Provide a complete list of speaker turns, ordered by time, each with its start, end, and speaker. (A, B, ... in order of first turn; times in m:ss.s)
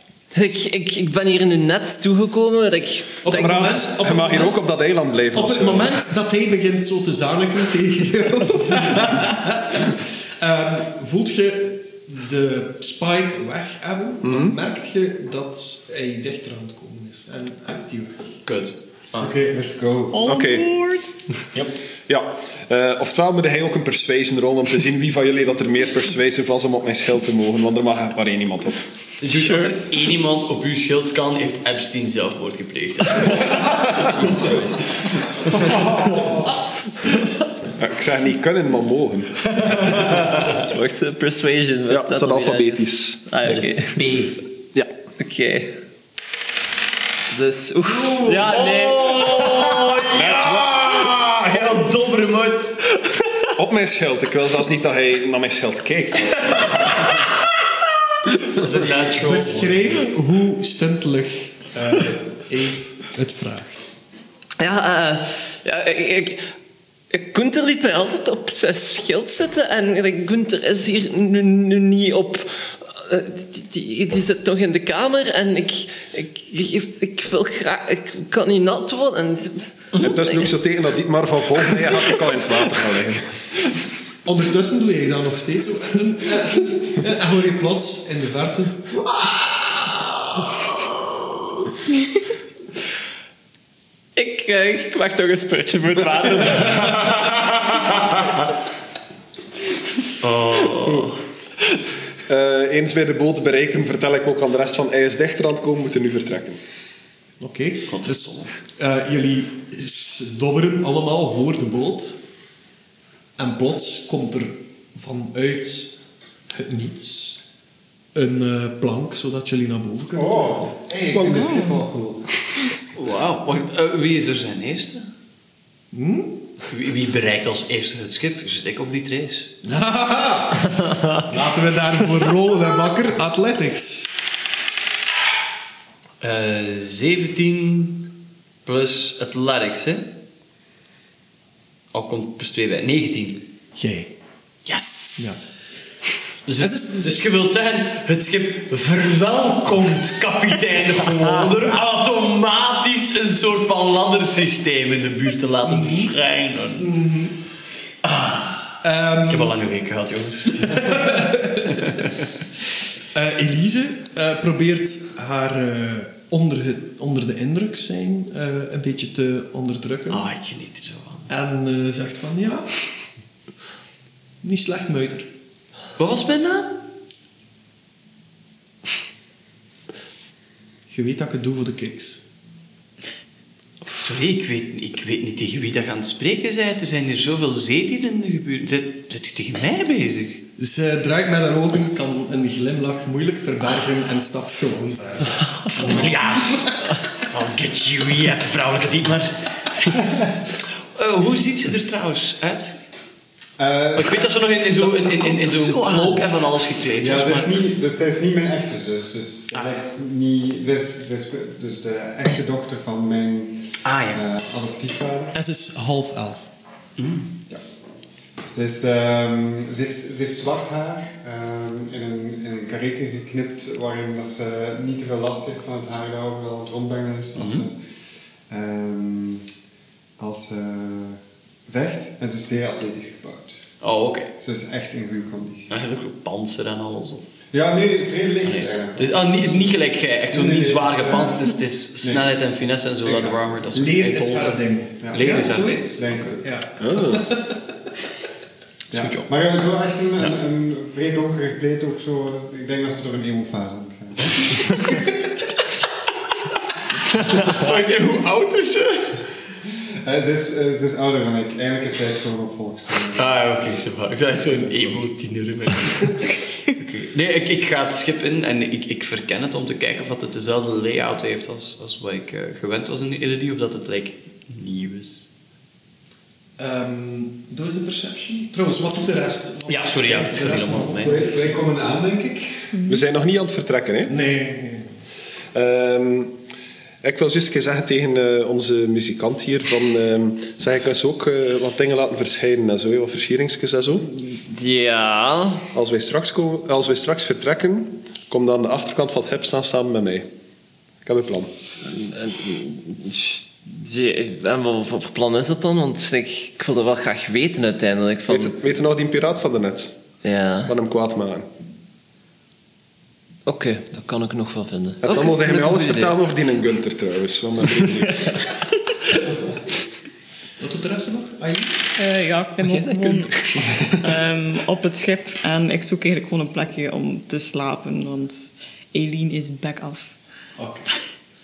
0:00.3-0:03.9 A
0:03.2-0:04.6 B
0:03.3-0:06.0 C
0:05.3-0:18.3 B
0:14.2-0:14.6 C
0:18.4-0:19.3 D
0:19.2-0:20.3 E
0:20.1-0:21.1 F
0:20.2-0:20.7 C
0:22.1-0:28.9 C
0:29.2-0:35.9 D
0:29.3-0:29.8 A
0:33.7-0:34.1 C
0:35.7-0:36.2 C
0:35.9-0:37.1 B
0:37.8-0:40.0 C
0:39.7-0:44.3 A
0:41.9-0:43.2 C
0:44.0-0:44.3 D
0:45.2-0:45.7 A
0:47.3-0:50.2 A
0:47.8-0:52.8 D
0:50.1-0:50.9 C
0:53.6-0:57.1 C
0:56.7-0:57.2 D
0:58.4-0:59.9 D
0:59.2-1:04.0 B
1:04.6-1:06.4 A
1:07.1-1:20.5 A
1:20.0-1:23.4 C
1:21.7-1:22.3 A
1:24.2-1:28.9 B
1:34.2-1:37.4 A
1:40.2-1:41.2 D
1:42.3-1:46.6 C
1:47.4-1:52.2 B
1:47.9-1:48.5 D
1:53.4-1:57.4 B
1:58.1-2:01.8 B
2:00.1-2:02.2 E
2:02.9-2:05.1 D
2:05.9-2:06.4 B
2:06.7-2:09.5 D
2:09.6-2:14.1 B
2:16.2-2:18.1 D
2:18.6-2:20.1 D
2:21.9-2:23.4 D
2:23.8-2:24.1 B
2:24.6-2:25.4 D
2:25.2-2:25.4 B
2:26.4-2:36.9 D
2:26.6-2:27.2 B
2:35.6-2:36.1 B
2:36.8-2:37.4 B
2:38.0-2:42.2 D
2:38.8-2:39.6 B
2:40.6-2:41.8 B
2:43.1-2:50.3 B
2:50.1-2:51.3 D
2:51.3-2:52.7 B
2:54.4-2:55.3 B
2:56.0-2:56.8 D
3:00.9-3:02.2 B
3:03.9-3:10.4 D
3:10.6-3:16.8 B
3:15.8-3:20.0 D
3:20.9-3:22.8 D
3:23.6-3:24.8 E
3:24.0-3:27.6 D
3:27.0-3:35.4 E
3:33.8-3:34.2 D
3:35.3-3:36.5 B
3:37.0-3:37.3 D
3:38.4-3:47.7 E
3:47.4-3:47.6 D
3:48.5-3:49.4 E
3:50.2-3:53.6 E
3:53.8-3:54.3 D
3:54.4-3:55.7 E
3:55.7-3:57.2 D
3:57.5-3:59.8 E
3:58.4-4:06.0 D
4:00.3-4:02.3 E
4:03.0-4:04.0 E
4:03.7-4:07.6 B
4:05.0-4:06.4 E
4:06.8-4:07.3 C
4:08.9-4:15.0 E
4:08.9-4:09.3 C
4:17.2-4:19.2 D
4:20.0-4:23.3 E
4:23.1-4:35.2 D
4:36.6-4:41.5 B
4:39.7-4:41.3 D
4:41.0-4:42.7 E
4:42.7-4:43.0 F
4:42.9-4:44.1 C
4:44.1-4:44.9 B
4:45.5-4:46.4 C
4:47.0-4:54.1 C
4:54.1-4:55.6 A
4:55.7-5:00.3 C
5:01.0-5:01.5 C
5:01.8-5:08.6 A
5:08.3-5:10.0 C
5:10.2-5:10.7 A
5:10.6-5:11.5 C
5:13.4-5:16.2 A
5:15.0-5:18.4 C
5:17.8-5:18.4 A
5:20.6-5:21.9 B
5:22.0-5:30.1 F
5:22.6-5:23.5 A
5:30.6-5:30.9 B